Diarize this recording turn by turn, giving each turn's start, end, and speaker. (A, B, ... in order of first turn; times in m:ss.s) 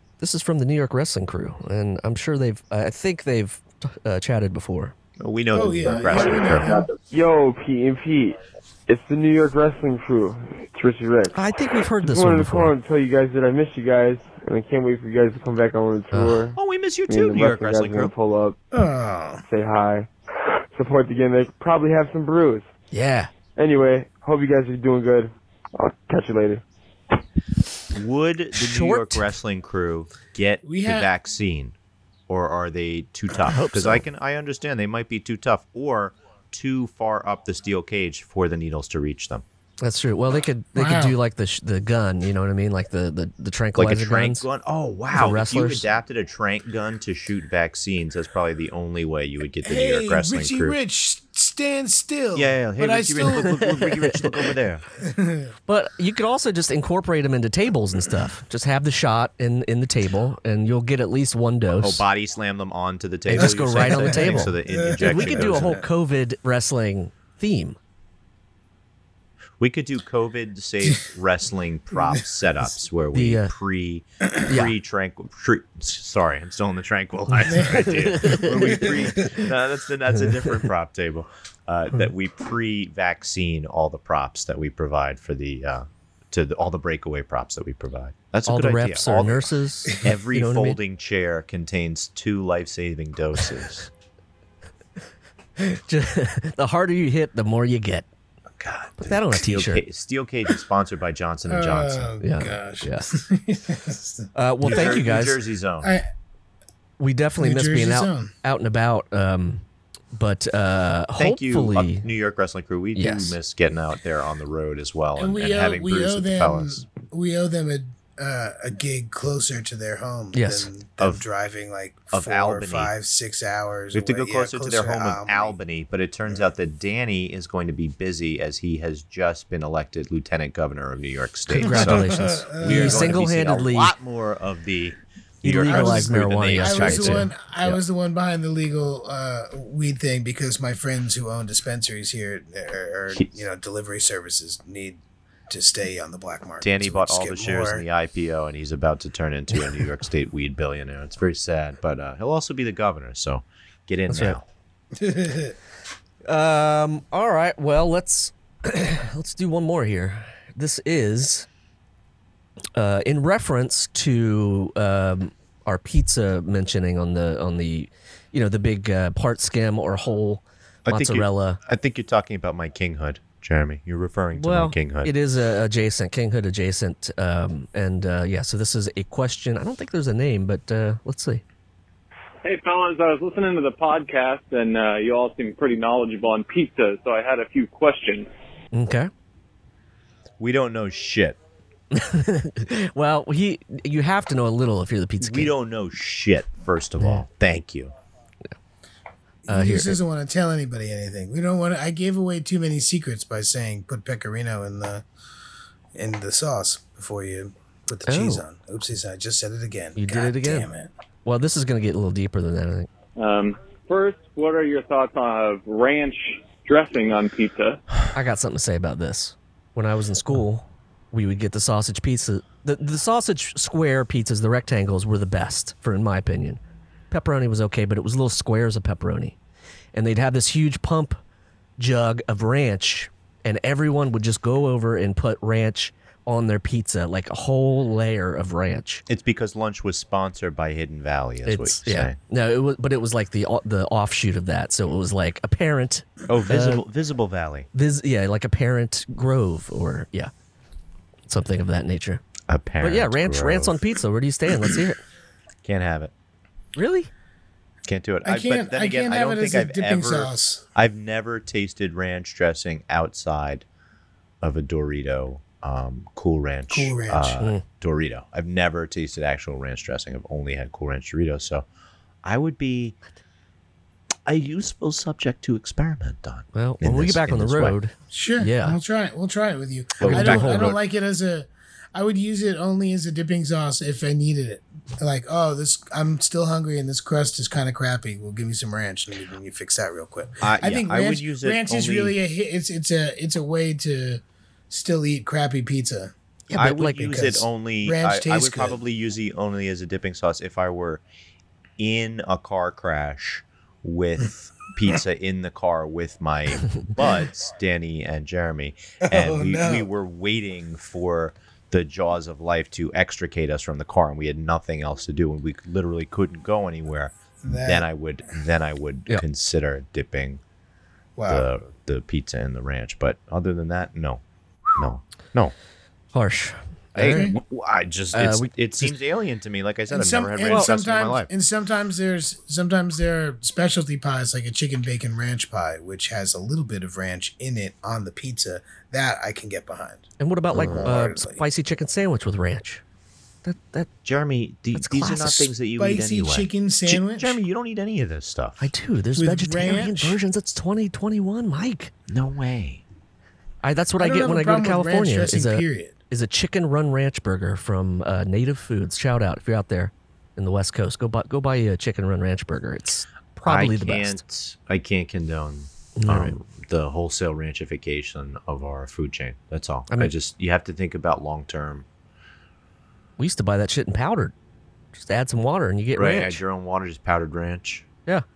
0:00.2-0:04.9 A
0:05.2-0:06.7 B
0:05.5-0:06.9 C
0:07.1-0:11.4 D
0:11.3-0:12.7 A
0:12.0-0:16.6 D
0:16.1-0:16.4 A
0:16.5-0:18.1 B
0:17.1-0:18.6 D
0:18.7-0:19.4 C
0:19.5-0:20.1 D
0:20.7-0:22.7 D
0:22.9-0:23.3 A
0:23.6-0:26.6 D
0:27.9-0:31.7 B
0:28.6-0:29.2 A
0:30.6-0:31.1 C
0:32.3-0:39.4 B
0:33.5-0:34.0 A
0:39.8-0:44.4 A
0:40.7-0:41.2 C
0:43.8-0:50.8 B
0:45.1-0:45.8 A
0:49.6-0:54.3 C
0:52.3-0:54.8 B
0:55.0-0:55.5 C
0:55.7-1:02.0 A
1:01.8-1:05.8 B
1:03.3-1:07.8 A
1:03.3-1:05.7 C
1:09.6-1:33.9 B
1:13.1-1:13.5 A
1:14.4-1:14.7 A
1:17.4-1:18.8 A
1:17.4-1:19.4 C
1:28.5-1:30.8 A
1:35.6-1:38.1 A
1:38.6-1:42.1 B
1:39.0-1:39.8 A
1:41.5-1:45.0 C
1:42.2-1:43.1 A
1:44.3-1:45.4 A
1:44.6-1:46.0 B
1:45.8-1:46.0 C
1:47.0-1:52.0 A
1:47.4-1:48.3 C
1:51.2-1:56.8 B
1:53.0-1:53.4 A
1:55.2-2:05.6 C
2:00.3-2:00.7 A
2:02.1-2:02.9 B
2:03.9-2:17.3 B
2:11.5-2:13.9 A
2:11.6-2:13.2 C
2:15.4-2:17.7 A
2:15.6-2:27.8 C
2:26.6-2:34.4 B
2:34.1-2:34.4 A
2:34.9-2:35.6 C
2:36.2-2:41.5 A
2:42.8-2:51.6 A
2:50.9-2:55.1 B
2:54.3-3:01.4 A
3:02.4-3:08.3 E
3:08.7-3:09.1 A
3:10.4-3:11.4 B
3:11.9-3:15.5 A
3:15.2-3:17.9 B
3:19.4-3:25.0 C
3:19.5-3:20.0 A
3:25.9-3:30.9 C
3:28.1-3:28.4 A
3:30.0-3:30.7 A
3:31.2-3:32.9 A
3:33.2-3:37.8 E
3:38.1-3:46.6 A
3:47.1-3:49.4 A
3:49.9-3:51.2 A
3:51.8-3:59.0 A
3:59.1-4:02.2 B
4:01.4-4:06.8 A
4:06.3-4:07.7 B
4:07.7-4:10.3 A
4:11.3-4:12.2 A
4:12.5-4:13.8 B
4:12.8-4:15.0 A
4:15.6-4:16.1 B
4:16.8-4:17.1 A
4:17.8-4:23.6 B
4:18.2-4:20.6 C
4:24.4-4:31.7 B
4:26.7-4:27.4 C
4:32.2-4:33.0 B
4:34.2-4:37.8 B
4:36.5-4:38.8 A
4:38.1-4:56.1 C
4:40.0-4:40.8 B
4:40.0-4:40.7 A
4:50.4-4:52.1 B
4:56.5-4:57.1 A
4:56.5-5:01.0 B
4:57.0-4:58.8 C
5:01.8-5:20.4 B
5:09.0-5:09.9 C
5:17.4-5:17.8 C
5:21.2-5:21.5 C
5:21.3-5:24.2 B
5:24.7-5:25.5 B
5:26.1-5:27.3 A
5:26.9-5:31.3 B
5:27.0-5:27.4 C
5:28.1-5:28.9 A
5:29.9-5:41.4 C
5:40.2-5:42.8 A
5:40.5-5:40.9 B
5:43.4-5:43.9 A
5:44.0-5:48.7 B
5:44.7-5:45.5 A
5:45.7-5:47.4 C
5:48.6-5:51.9 A
5:49.2-5:50.2 C
5:52.1-5:52.8 B
5:53.6-6:04.2 A
5:54.0-5:56.0 C
6:03.4-6:11.8 B
6:06.0-6:06.3 A
6:13.2-6:14.3 A
6:15.0-6:16.4 A
6:16.0-6:17.9 B